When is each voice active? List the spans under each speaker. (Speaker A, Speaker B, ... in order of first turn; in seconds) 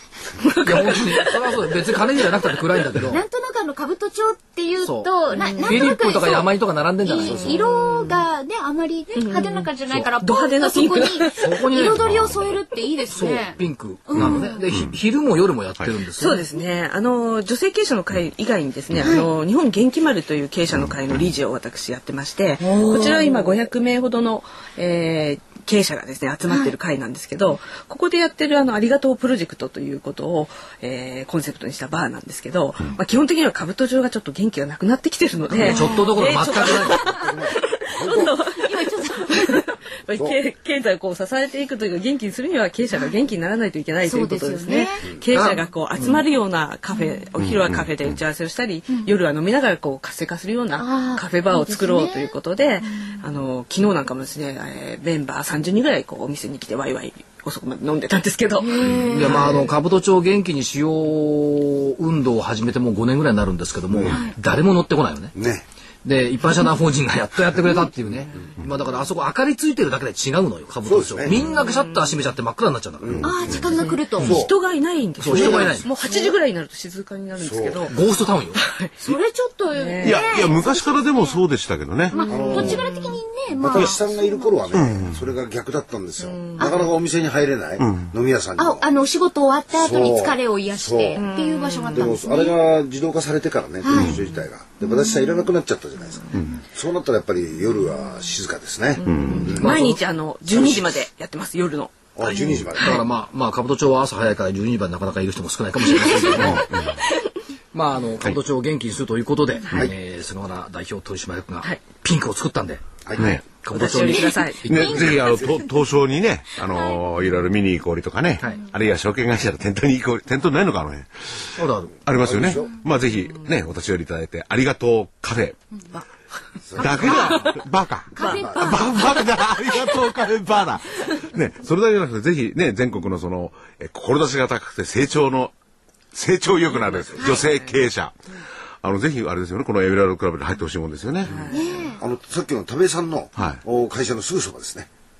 Speaker A: 0.4-1.6, 5.3-5.9, 7.3-8.2, 9.1-11.6, 16.2-59.6, 71.5-72.1, 73.7-77.9, 78.5-78.9, 79.7-80.3, 82.2-83.2, 86.2-86.9, 91.1-92.2, 99.0-103.0, 113.7-115.0, 128.2-128.7, 136.7-137.8, 141.2-141.9
Speaker B: 0.6-3.2, 4.8-7.6, 11.4-12.0, 13.1-16.5, 35.5-37.0, 45.3-46.2, 59.0-65.3, 66.0-73.2, 75.2-75.9, 77.9-78.6, 99.3-100.0, 102.7-106.7, 107.7-112.8, 113.6-115.0, 121.5-121.9
Speaker C: 3.0-6.5, 7.0-14.7, 19.0-19.3, 22.6-23.4, 35.5-36.1, 38.5-39.6, 44.0-45.1, 46.9-47.2, 50.8-53.1, 58.6-59.7, 64.1-64.3, 73.2-74.4, 76.0-76.3, 79.0-81.4, 82.1-84.8, 86.6-86.9, 88.6-92.5, 93.8-94.2, 94.8-95.5, 126.8-127.5, 128.1-130.0, 141.5-142.0
Speaker D: 12.0-12.6, 14.2-14.9, 47.4-48.2, 73.1-73.6, 80.0-82.2, 84.7-85.2, 87.8-88.1, 93.9-94.2, 99.0-99.5, 106.3-106.9, 113.2-113.4, 114.6-121.5, 122.0-125.6, 126.8-135.5, 136.1-138.2, 138.8-141.4, 143.3-143.6
Speaker E: 37.0-38.4, 63.9-64.2, 65.3-65.6, 70.8-71.4, 73.0-74.5, 75.3-75.9, 77.4-77.9, 82.3-82.9, 83.6-88.9, 89.7-91.2, 91.9-99.8, 100.5-100.9, 102.2-103.0, 115.1-115.6, 122.2-122.7, 126.7-127.2, 128.2-128.8, 142.0-144.9